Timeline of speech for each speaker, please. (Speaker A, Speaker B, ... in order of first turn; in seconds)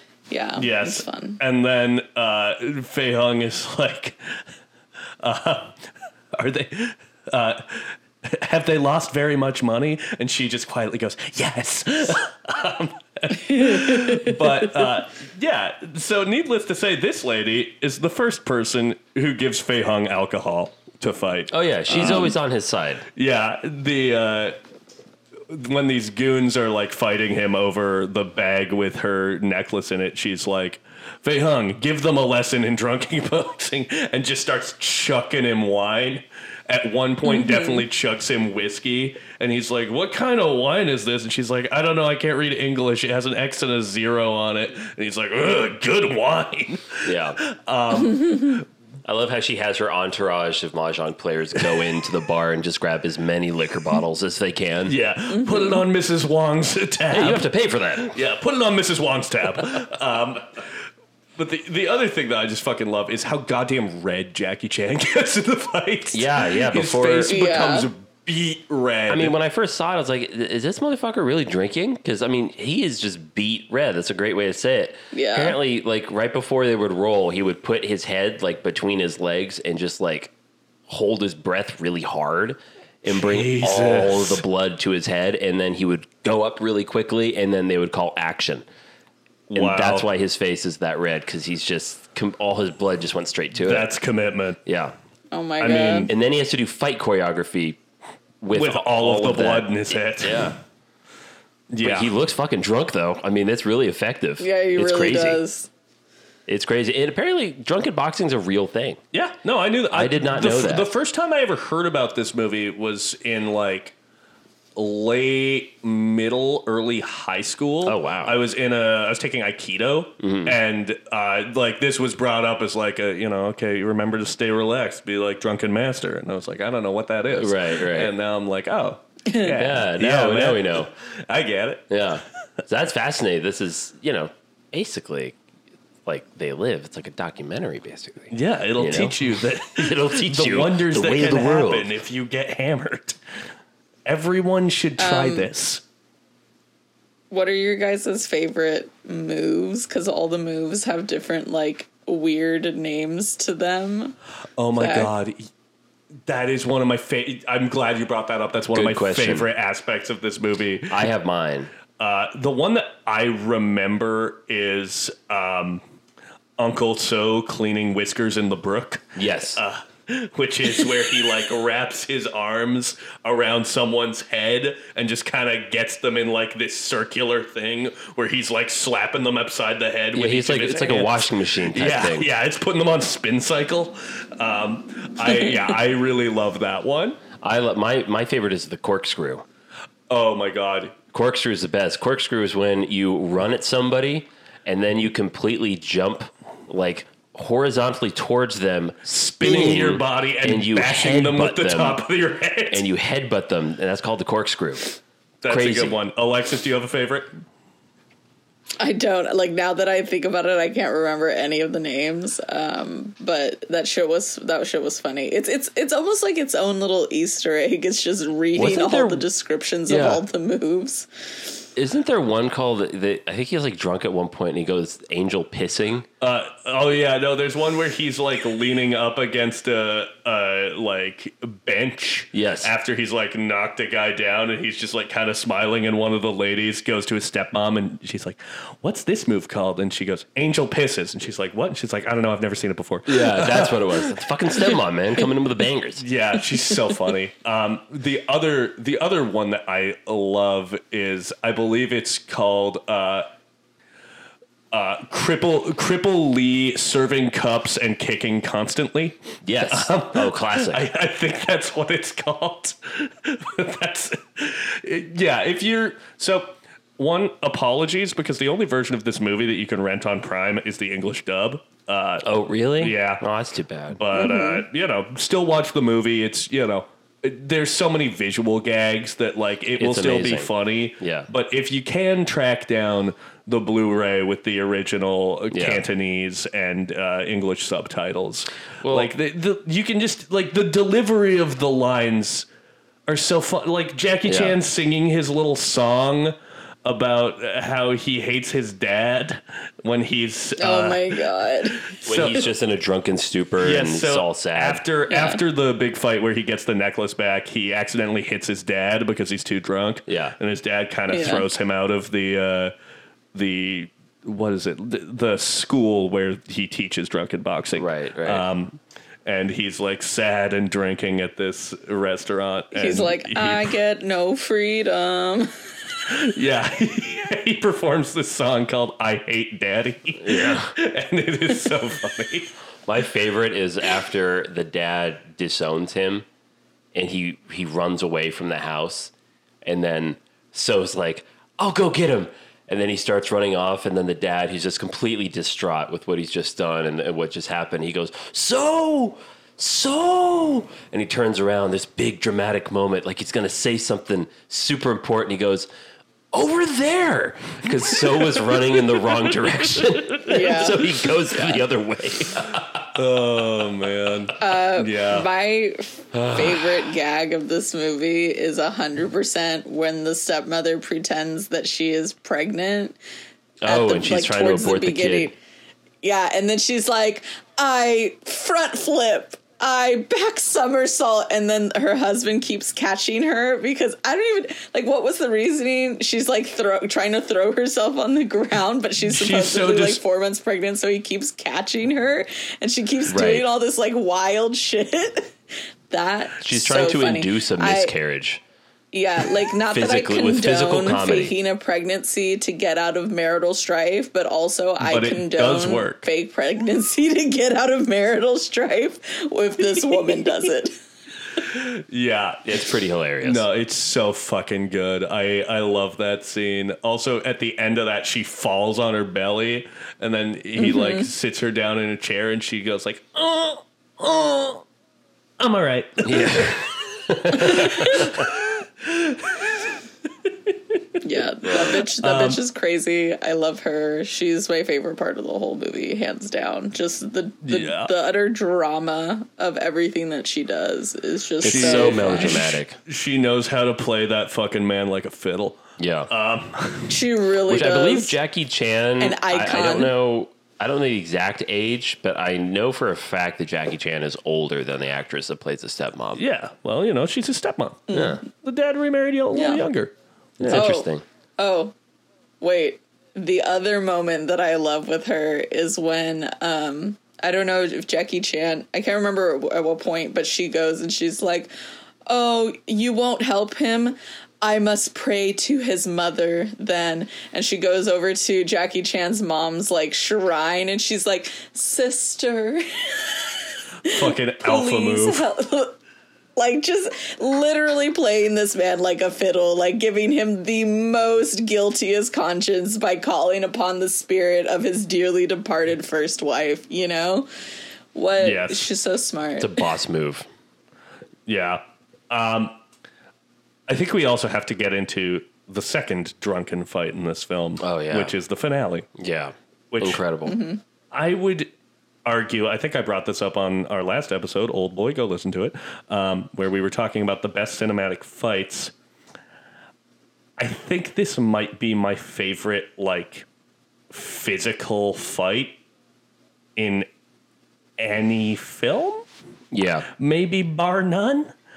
Speaker A: 0.3-1.4, 13.4-14.6, 21.9-22.3, 37.2-37.8, 55.3-55.8, 67.2-67.9, 75.1-75.6, 95.3-96.1, 104.4-105.7, 129.3-129.6, 145.0-145.5, 147.3-154.2, 154.8-155.1, 208.8-221.6, 274.1-274.6, 300.6-301.9, 305.1-305.4, 311.1-311.4, 322.7-325.5, 360.2-360.9, 364.4-373.0, 373.6-375.3, 376.0-395.3, 395.9-397.9, 398.9-410.8, 420.6-421.1, 427.7-428.0, 431.0-442.4, 446.9-448.1, 449.0-449.9, 457.9-458.2, 459.3-459.6, 460.5-461.7, 462.4-471.5, 472.1-485.8, 486.4-497.3, 497.9-499.6, 510.2-510.6
Speaker B: 0.6-4.2, 5.2-5.8, 6.3-22.3, 23.1-24.6, 25.5-48.6, 54.9-57.5, 58.0-60.7, 61.4-69.3, 83.1-84.4, 89.5-90.1, 93.6-94.6, 95.6-96.1, 98.5-100.6, 101.7-102.1, 109.1-113.9, 114.8-131.9, 138.3-143.2, 144.1-145.8, 154.6-155.5, 156.2-161.0, 162.0-165.8, 166.6-187.2, 190.1-191.0, 199.1-202.8, 205.4-207.3, 226.2-244.8, 246.0-253.3, 254.7-272.3, 272.8-273.2, 273.9-292.5, 293.1-301.2, 301.9-302.5, 303.6-312.7, 313.3-323.8, 326.1-332.5, 359.8-360.3, 362.9-365.3, 389.0-390.0, 404.8-406.1, 411.4-412.6, 413.2-424.6, 425.4-429.7, 431.8-432.4, 437.4-437.9, 441.4-447.0, 456.1-460.7, 483.8-485.2, 498.2-498.7, 501.3-502.6, 503.7-508.9, 509.7-510.0, 510.9-511.5, 512.0-518.7, 520.4-523.2, 523.9-525.6, 526.5-526.9, 527.8-529.0, 530.0-531.3
Speaker C: 21.5-23.0, 47.0-47.4, 49.0-55.0, 57.1-58.1, 66.1-67.4, 69.1-80.3, 80.9-88.6, 89.5-93.9, 94.7-94.9, 96.1-97.8, 98.4-100.6, 101.8-105.4, 106.5-109.0, 109.9-110.9, 117.8-118.4, 120.2-120.6, 127.3-128.1, 129.5-130.9, 131.9-135.4, 136.1-141.9, 158.7-159.5, 160.9-161.7, 169.2-169.6, 180.1-182.3, 187.4-189.4, 191.1-202.0, 202.7-204.9, 205.5-206.0, 218.5-219.2, 219.9-220.2, 221.8-226.1, 232.3-232.7, 243.1-246.0, 259.4-260.8, 272.2-274.0, 279.8-281.3, 285.5-285.8, 288.8-289.1, 294.2-294.6, 302.0-304.8, 310.1-310.4, 317.7-318.4, 330.2-330.7, 332.9-336.2, 336.9-339.1, 339.6-355.7, 356.3-362.9, 366.1-366.9, 373.6-375.3, 393.1-393.5, 396.4-398.4, 399.7-401.3, 412.4-413.4, 426.0-428.3, 431.5-431.8, 441.4-442.8, 445.8-446.1, 447.5-456.2, 457.9-458.2, 460.4-461.0, 499.4-500.2, 507.6-508.1, 509.0-510.4, 529.5-529.9